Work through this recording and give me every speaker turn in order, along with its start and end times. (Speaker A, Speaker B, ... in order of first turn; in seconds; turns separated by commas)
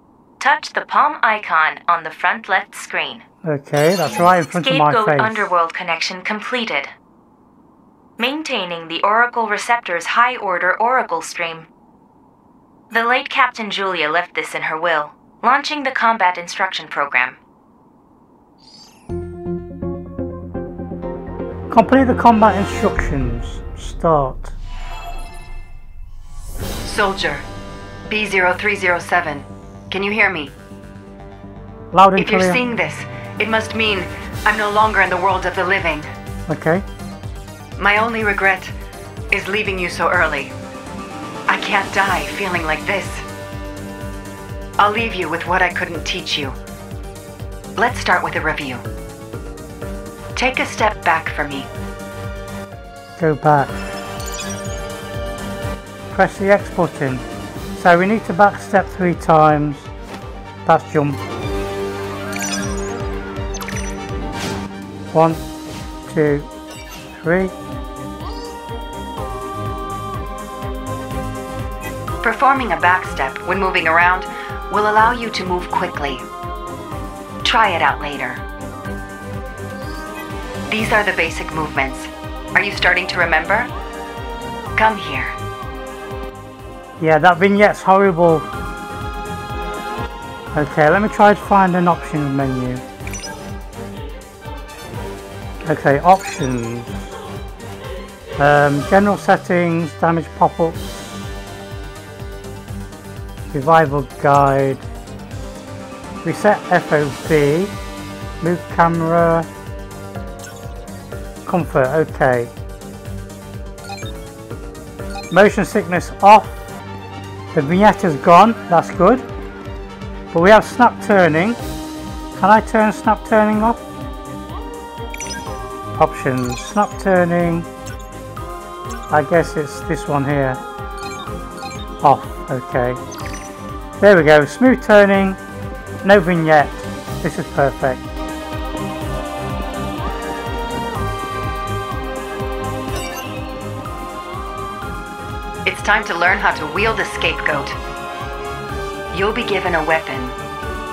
Speaker A: 0.4-3.2, Speaker B: 3.4-5.5, Speaker A: 4.5-6.9, Speaker A: 8.2-11.7, Speaker A: 12.9-17.4, Speaker B: 21.7-24.6, Speaker C: 26.8-27.4, Speaker C: 28.1-30.5, Speaker B: 31.9-32.6, Speaker C: 32.1-36.1, Speaker B: 36.5-36.9, Speaker C: 37.8-38.7, Speaker C: 39.3-40.5, Speaker C: 41.5-43.2, Speaker C: 44.8-46.6, Speaker C: 47.8-48.8, Speaker C: 50.4-51.7, Speaker B: 53.2-53.7, Speaker B: 56.1-59.9, Speaker B: 60.6-61.2, Speaker B: 65.1-65.4, Speaker B: 66.1-66.5, Speaker B: 67.1-67.5, Speaker C: 72.2-76.2, Speaker C: 77.4-78.4, Speaker C: 80.7-83.7, Speaker C: 84.8-85.4, Speaker B: 87.0-88.5, Speaker B: 90.5-92.8, Speaker B: 95.6-97.1, Speaker B: 98.4-101.0, Speaker B: 103.5-104.8, Speaker B: 106.2-107.8, Speaker B: 108.4-109.5, Speaker B: 111.4-112.5, Speaker B: 115.3-116.6, Speaker B: 117.5-119.3, Speaker B: 120.3-121.6, Speaker B: 122.3-123.8, Speaker B: 126.0-127.7, Speaker B: 129.1-130.6, Speaker B: 132.0-133.0, Speaker B: 134.0-135.4, Speaker B: 136.0-138.1, Speaker C: 145.6-147.8, Speaker C: 149.1-150.4